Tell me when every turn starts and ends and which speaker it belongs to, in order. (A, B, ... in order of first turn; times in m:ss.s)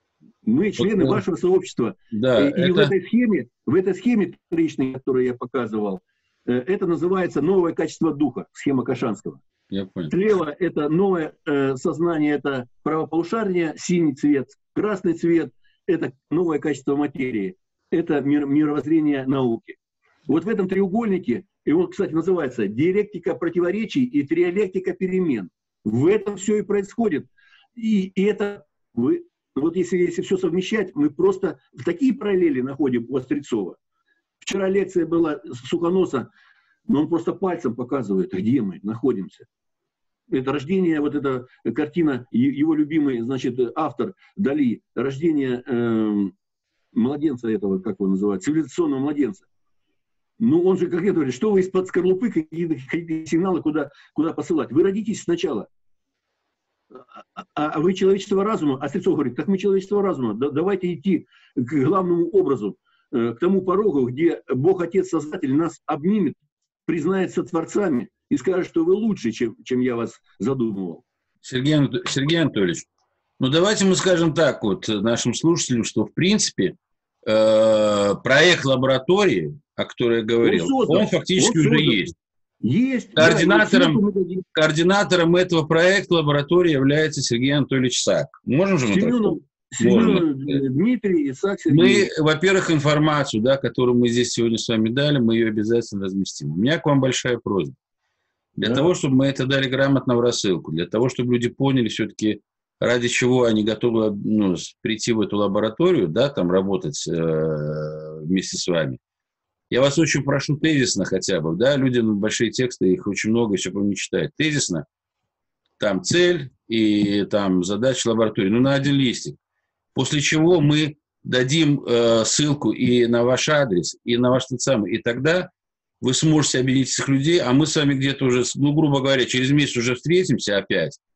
0:00.4-0:09.4 A
0:00.8-0:01.2 B
0:02.1-0:02.9 B
0:09.7-0:10.2 B
0:10.1-0:33.8 A
0:34.4-0:36.3 A
0:36.9-0:39.5 A
0:40.3-0:46.3 A
0:46.9-0:49.5 A
0:50.4-0:55.7 A
0:56.9-1:11.0 A
1:11.4-1:12.9 B
1:13.4-1:22.1 B
1:20.4-1:22.1 A
1:22.6-1:24.5 A
1:23.2-1:24.0 B
1:24.5-1:30.6 B
1:28.9-1:32.1 A
1:31.7-1:37.8 B
1:38.6-1:49.0 B
1:49.7-1:54.8 B
1:55.8-1:59.4 B
2:00.0-2:11.0 B